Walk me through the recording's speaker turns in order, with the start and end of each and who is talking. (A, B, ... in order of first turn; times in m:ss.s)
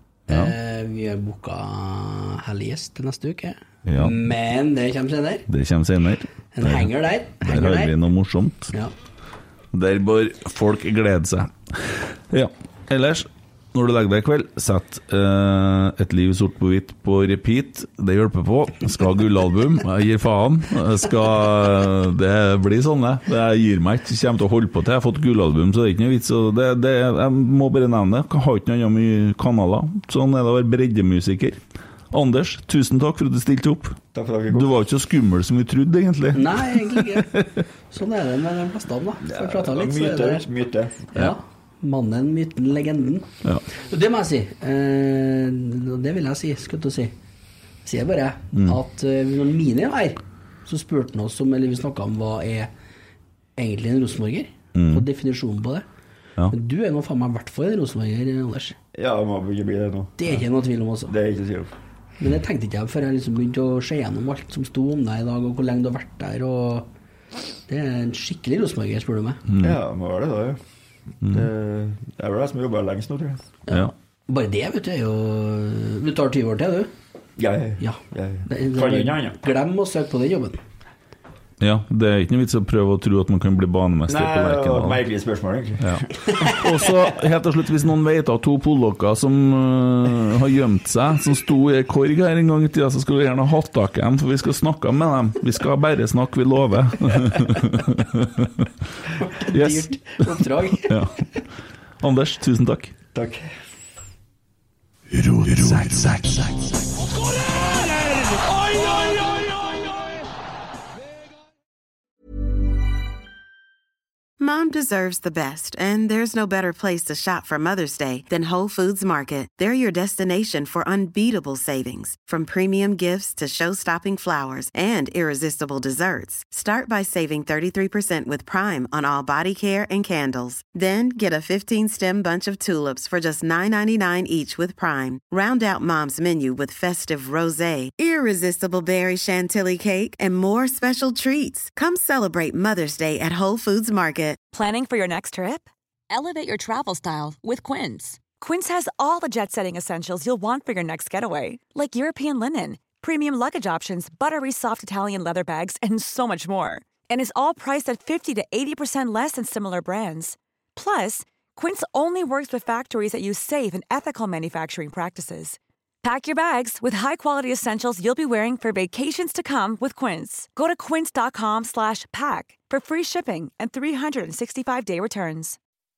0:00.3-0:05.4 A
0:03.8-0:04.1 B
0:05.5-0:08.7 B
0:06.5-0:07.9 A
0:09.7-0:31.6 B
0:32.1-0:37.5 B
0:34.1-0:34.7 C
0:36.3-0:37.3 A
0:37.9-0:40.5 A
0:39.2-0:41.1 C
0:41.1-0:47.1 A
0:47.8-0:52.7 A
0:53.6-0:55.8 A
0:54.7-0:55.0 B
0:56.5-0:58.8 A
0:58.9-1:00.3 C
1:00.2-1:01.1 A
1:01.1-1:01.7 C
1:02.2-1:06.9 A
1:07.7-1:09.4 A
1:09.5-1:09.8 B
1:09.6-1:10.6 C
1:11.2-1:11.5 B
1:11.3-1:13.4 C
1:13.7-1:16.9 A
1:17.4-1:19.4 C
1:17.8-1:20.6 A
1:21.6-1:25.0 B
1:24.1-1:26.4 C
1:25.8-1:38.7 B
1:39.2-1:41.0 A
1:39.5-1:41.1 B
1:42.0-1:42.9 B
1:43.1-1:43.5 C
1:54.4-2:24.4 D
2:24.5-2:25.7 E
2:26.7-2:55.6 E